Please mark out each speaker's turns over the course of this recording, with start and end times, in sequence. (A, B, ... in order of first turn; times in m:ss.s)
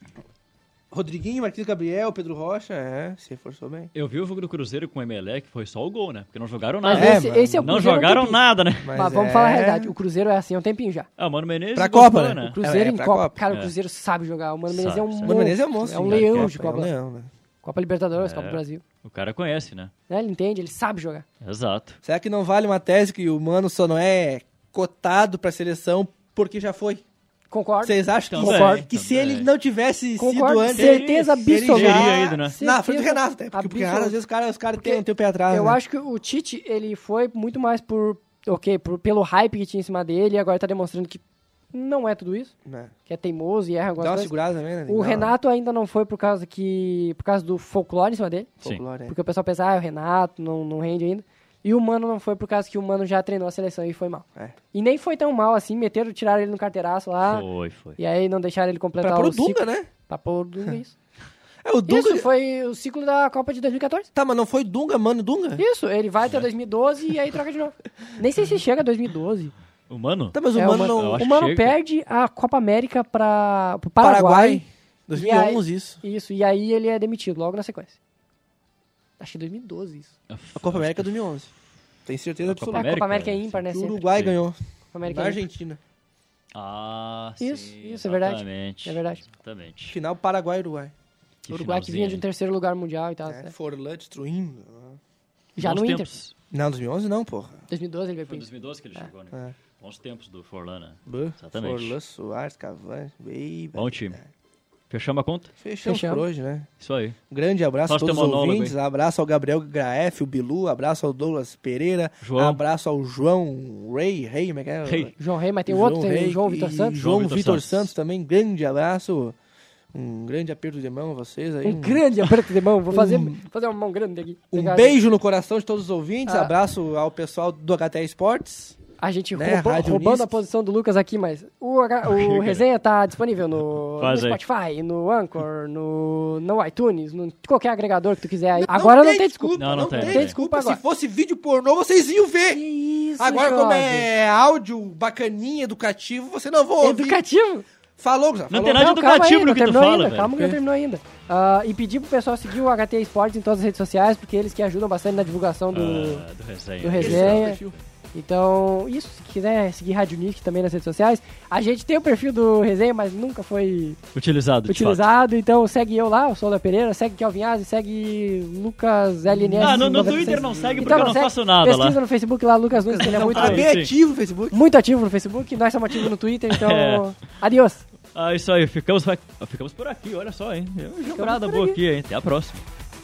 0:00.9-0:03.9 A
0:03.9-0:08.9 B
0:06.8-0:08.4 C
0:06.9-0:07.7 A
0:08.8-0:09.9 A
0:08.9-0:11.1 C
0:11.2-0:12.6 B
0:11.7-0:13.4 A
0:12.4-0:16.9 C
0:14.7-0:16.5 B
0:15.2-0:17.3 A
0:17.6-0:18.8 C
0:18.2-0:19.9 B
0:20.1-0:21.2 C
0:21.4-0:22.0 B
0:22.0-0:27.0 A
0:27.5-0:28.8 C
0:27.8-0:35.8 A
0:28.3-0:29.5 B
0:30.2-0:34.2 C
0:30.7-0:32.6 B
0:34.8-0:42.5 C
0:42.6-0:42.9 A
0:43.1-0:44.3 C
0:44.0-0:45.3 A
0:44.9-0:48.5 C
0:48.6-0:49.1 A
0:49.0-0:57.4 C
0:57.2-0:58.0 B
0:58.0-1:01.0 C
0:59.0-0:59.9 A
1:01.6-1:02.3 A
1:01.8-1:04.1 C
1:04.1-1:05.6 A
1:05.6-1:09.5 C
1:09.9-1:11.8 B
1:10.3-1:11.2 A
1:10.5-1:18.0 C
1:14.0-1:16.0 A
1:19.2-1:20.1 C
1:20.3-1:21.1 B
1:20.6-1:21.5 A
1:22.0-1:22.9 A
1:22.4-1:23.6 B
1:22.7-1:24.0 C
1:23.7-1:25.8 A
1:24.9-1:25.4 C
1:26.5-1:30.0 B
1:27.4-1:29.2 C
1:29.9-1:30.9 A
1:31.4-1:32.2 B
1:31.5-1:33.5 C
1:33.3-1:35.0 A
1:35.6-1:36.1 C
1:35.6-1:36.3 B
1:36.5-1:37.6 A
1:37.7-1:38.4 C
1:38.2-1:42.0 B
1:41.0-1:44.2 A
1:43.7-1:44.2 B
1:44.9-1:45.5 B
1:45.6-1:46.7 A
1:45.8-1:46.2 C
1:46.8-1:47.2 B
1:47.3-1:55.1 A
1:47.9-1:48.8 B
1:52.2-1:52.6 B
1:54.8-1:55.1 B
1:55.2-1:57.0 C
1:55.7-1:59.4 A
1:56.9-1:57.9 B
1:59.9-2:02.0 A
2:01.6-2:05.0 C
2:02.9-2:03.4 A
2:04.5-2:08.8 A
2:06.3-2:06.5 C
2:09.0-2:20.8 C
2:09.3-2:10.4 A
2:12.0-2:12.6 B
2:14.0-2:14.4 B
2:18.6-2:22.6 A
2:19.6-2:20.3 B
2:22.5-2:24.1 C
2:23.2-2:27.2 A
2:26.8-2:27.6 C
2:28.0-2:28.9 A
2:28.5-2:30.6 B
2:28.7-2:36.2 C
2:35.7-2:37.8 B
2:36.8-2:37.6 C
2:37.0-2:37.7 A
2:38.1-2:44.0 C
2:44.1-2:45.0 B
2:44.7-2:53.7 C
2:49.3-2:51.2 A
2:49.6-2:52.0 B
2:52.8-2:54.6 A
2:53.1-2:53.9 B
2:54.5-2:57.8 C
2:56.5-2:57.0 B
2:58.1-3:02.6 B
3:01.1-3:01.8 C